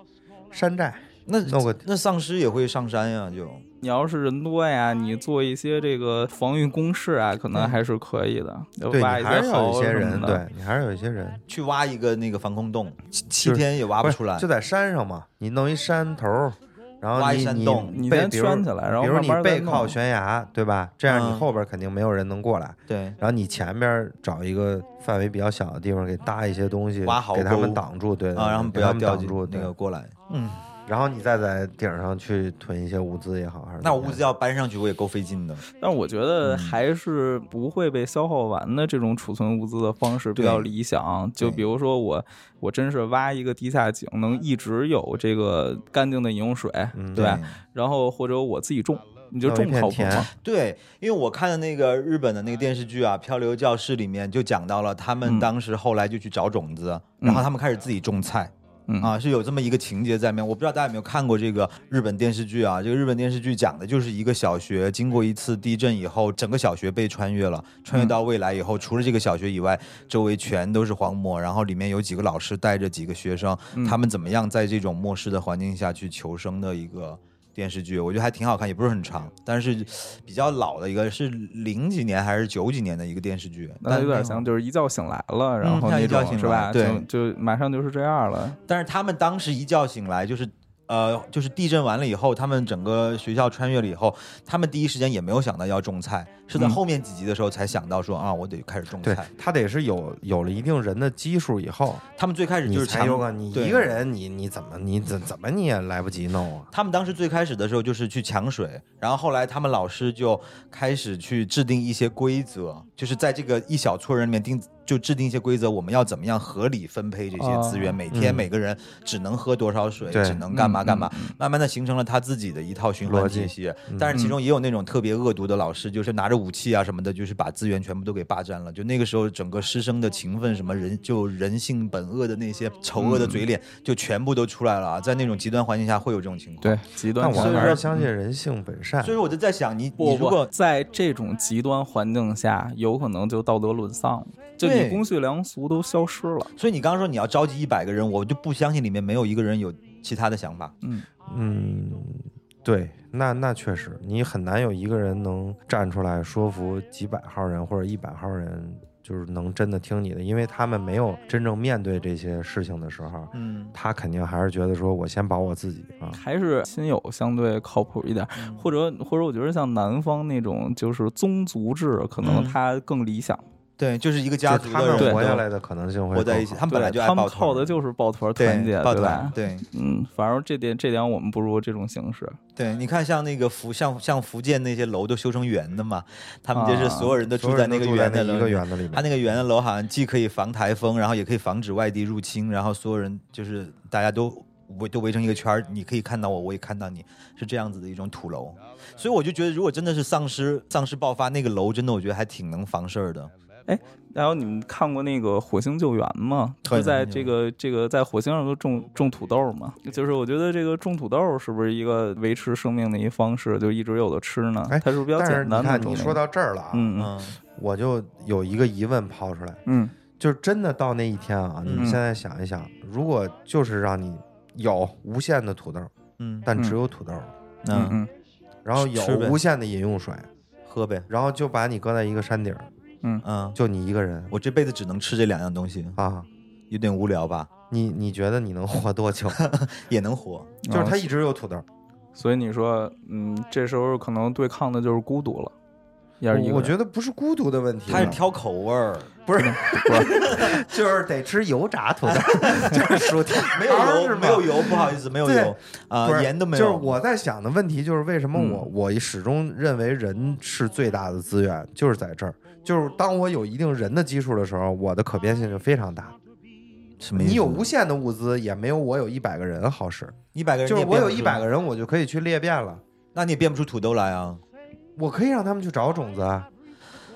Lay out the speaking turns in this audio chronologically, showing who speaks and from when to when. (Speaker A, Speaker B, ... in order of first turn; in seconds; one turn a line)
Speaker A: 0.5-1.8
Speaker B: 1.3-3.6
Speaker C: 3.8-10.4
Speaker A: 8.9-11.4
Speaker B: 11.5-14.4
Speaker A: 13.4-29.7
Speaker B: 17.1-17.9
Speaker C: 17.9-19.9
Speaker B: 21.1-21.4
Speaker B: 22.9-23.2
Speaker B: 27.0-27.8
Speaker B: 28.3-30.6
Speaker A: 30.9-34.2
Speaker B: 33.8-35.6
Speaker C: 35.7-50.3
Speaker B: 36.4-36.8
Speaker B: 40.4-40.7
Speaker A: 46.9-47.4
Speaker B: 47.1-47.6
Speaker A: 49.4-50.3
Speaker B: 50.3-84.5
Speaker C: 55.2-55.5
Speaker C: 57.2-57.5
Speaker C: 58.9-59.1
Speaker C: 73.7-74.0
Speaker C: 83.8-88.6
Speaker B: 85.6-87.0
Speaker B: 88.7-99.3
Speaker A: 99.0-102.0
Speaker B: 102.2-103.9
Speaker A: 102.7-106.7
Speaker B: 106.7-136.8
Speaker C: 117.4-118.0
Speaker A: 118.1-118.5
Speaker A: 120.1-120.4
Speaker C: 120.5-121.3
Speaker A: 123.0-124.2
Speaker C: 133.0-133.4
Speaker C: 136.6-137.8
Speaker A: 137.2-139.2
Speaker B: 137.3-138.1
Speaker B: 139.0-140.5
Speaker C: 140.0-146.5
Speaker B: 144.6-145.0
Speaker B: 146.6-150.7
Speaker A: 151.3-166.2
Speaker B: 163.3-163.7
Speaker C: 166.1-173.4
Speaker B: 168.4-168.6
Speaker B: 172.2-172.6
Speaker B: 173.8-175.4
Speaker A: 174.4-176.6
Speaker C: 175.0-175.3
Speaker B: 176.1-177.8
Speaker C: 176.7-182.4
Speaker B: 178.4-179.7
Speaker B: 182.6-203.3
Speaker C: 186.5-187.1
Speaker A: 187.3-189.1
Speaker C: 203.7-216.2
Speaker B: 206.6-207.3
Speaker A: 214.7-216.9
Speaker C: 216.7-217.1
Speaker B: 217.0-217.4
Speaker A: 217.5-219.6
Speaker C: 219.7-219.9
Speaker A: 220.2-225.9
Speaker B: 221.6-222.0
Speaker B: 226.2-226.5
Speaker A: 226.4-227.3
Speaker B: 227.6-228.0
Speaker C: 227.7-228.1
Speaker A: 228.6-230.3
Speaker B: 228.8-229.4
Speaker B: 230.7-231.1
Speaker A: 231.1-232.7
Speaker B: 233.2-233.6
Speaker A: 233.5-234.3
Speaker B: 234.3-236.0
Speaker A: 235.9-236.3
Speaker B: 236.7-237.5
Speaker A: 237.7-239.4
Speaker B: 239.3-240.6
Speaker C: 240.6-241.1
Speaker A: 240.7-241.6
Speaker C: 242.2-245.5
Speaker C: 246.2-246.7
Speaker A: 246.3-248.2
Speaker B: 247.9-249.2
Speaker A: 249.3-266.1
Speaker C: 249.3-250.1
Speaker B: 250.1-250.6
Speaker B: 252.0-257.0
Speaker B: 267.0-267.6
Speaker A: 267.1-272.8
Speaker B: 270.3-271.4
Speaker B: 273.1-274.4
Speaker A: 274.9-276.5